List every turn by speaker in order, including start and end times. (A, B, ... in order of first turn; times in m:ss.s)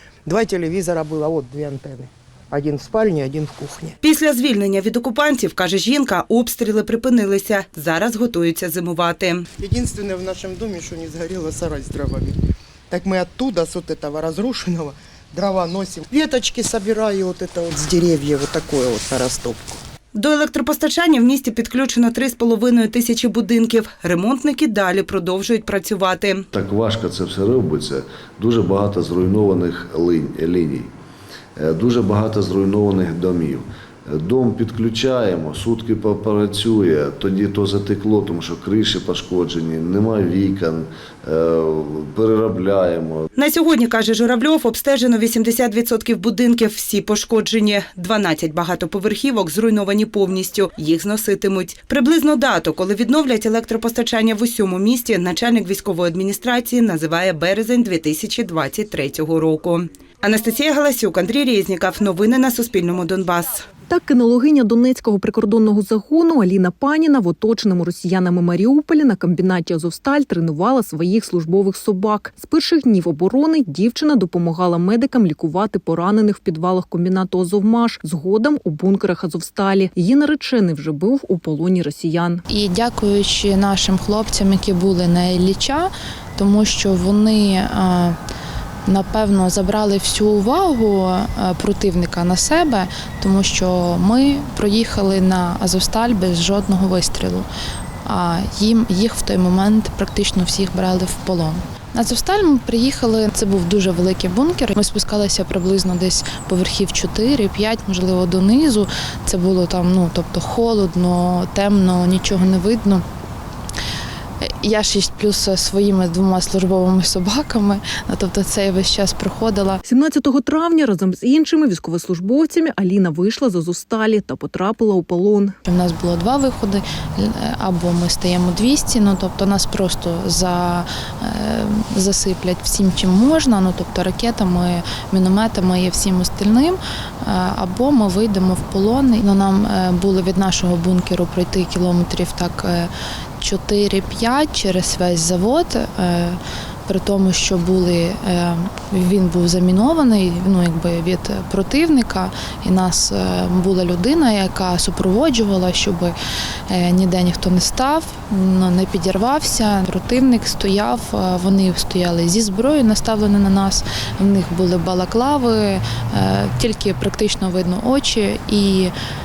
0:00.3-0:03.9 A
0:04.0-0:09.4 B
0:09.6-0:12.4 A
0:12.9-0:19.6 A
0:20.1-0:26.4 B
0:26.6-0:30.9 C
0:31.6-0:33.6 C
0:34.2-0:43.2 C
0:43.4-1:03.6 B
1:03.9-1:22.4 D
1:22.5-1:28.2 E
1:28.9-1:37.5 E
1:38.0-1:53.0 E
1:54.5-1:59.8 E
1:59.8-2:05.6 D
2:05.6-2:36.1 E
2:36.7-2:48.9 E